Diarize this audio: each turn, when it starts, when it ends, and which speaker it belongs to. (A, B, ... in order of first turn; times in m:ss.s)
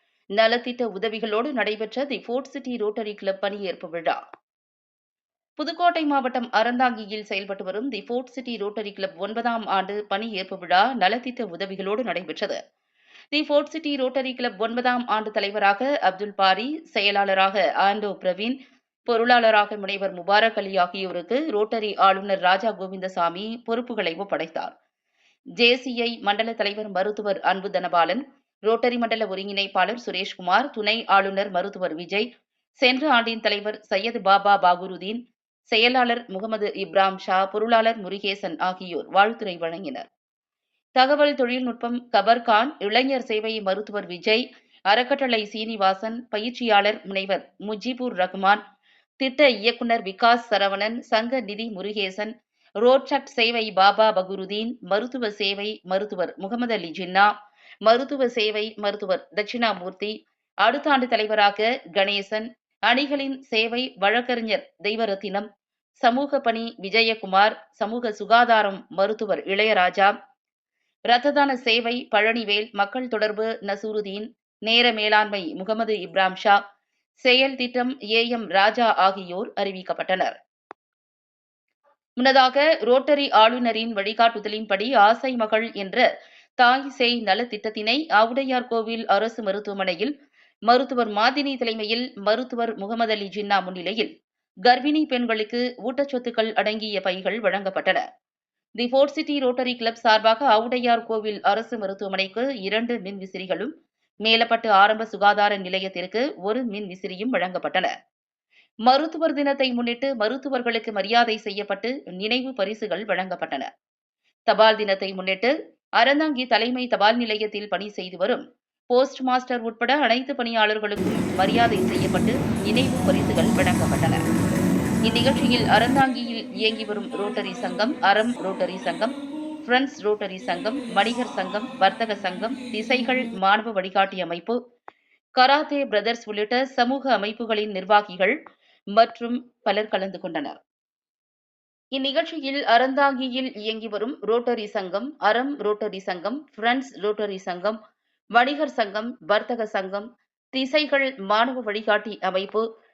0:00.4-0:04.2 A
0:05.6-0:12.6 A
0:13.3-0:24.7 A
0:25.6-0:32.3 A
0:32.8-0:40.1 A
0:41.0-0:48.6 A
0:49.2-0:57.3 A
0:57.8-1:05.5 A
1:06.0-1:10.1 A
1:11.1-1:16.6 A
1:17.2-1:20.4 A
1:22.2-1:26.0 A
1:26.6-1:30.1 A
1:30.7-1:34.1 A
1:34.7-1:38.0 A
1:38.8-1:43.7 A
1:44.2-1:47.9 A
1:48.9-1:53.7 A
1:54.5-2:04.2 A
2:05.1-2:14.6 A
2:15.4-2:18.4 A
2:19.0-2:20.6 A
2:21.9-2:27.8 A
2:28.4-2:32.6 A